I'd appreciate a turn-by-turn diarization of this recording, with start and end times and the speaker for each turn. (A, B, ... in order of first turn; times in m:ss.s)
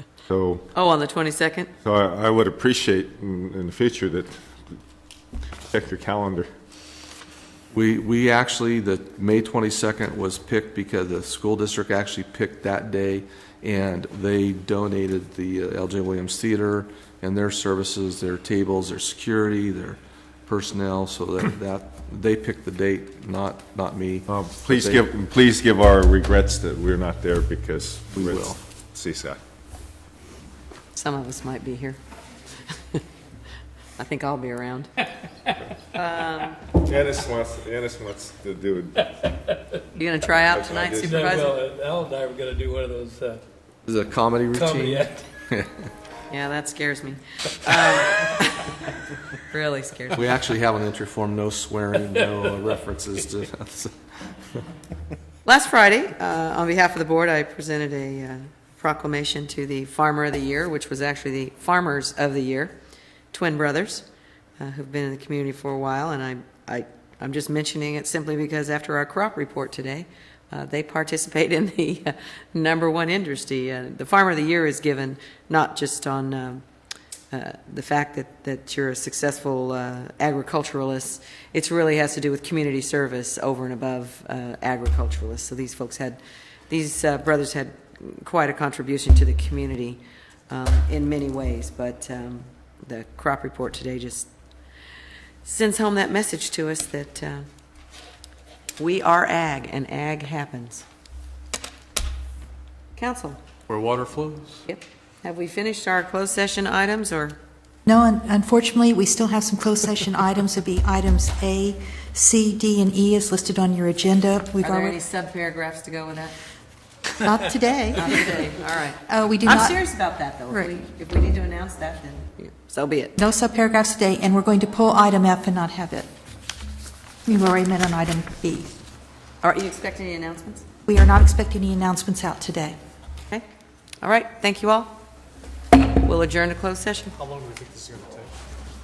0:00.3-0:00.7 A
0:00.7-0:01.7 B
0:01.8-0:04.3 A
0:05.7-0:06.5 A
0:07.7-0:25.0 C
0:24.3-0:29.4 A
0:28.1-0:28.6 C
0:31.0-0:32.0 B
0:34.0-0:35.0 B
0:35.9-0:36.6 B
0:36.7-0:39.1 A
0:40.0-0:41.6 B
0:40.4-0:41.4 A
0:41.0-0:43.4 D
0:43.9-0:45.7 C
0:44.6-0:45.3 D
0:46.3-0:48.8 B
0:49.5-0:50.3 B
0:50.2-0:53.9 C
0:55.4-1:02.7 B
1:03.3-1:04.1 B
1:04.6-1:16.6 B
1:17.3-1:26.2 B
1:26.7-1:34.3 B
1:35.4-1:37.5 B
1:38.8-1:40.8 B
1:43.0-1:43.4 B
1:43.7-1:44.5 C
1:44.7-1:47.4 B
1:47.9-1:55.0 E
1:54.6-1:56.4 B
1:57.1-1:58.4 E
1:58.0-2:03.1 B
1:59.1-1:59.8 E
2:00.5-2:00.8 E
2:03.2-2:06.1 E
2:07.3-2:08.7 E
2:09.4-2:10.6 B
2:10.9-2:12.8 E
2:14.0-2:15.0 B
2:16.0-2:17.1 B
2:17.2-2:18.3 D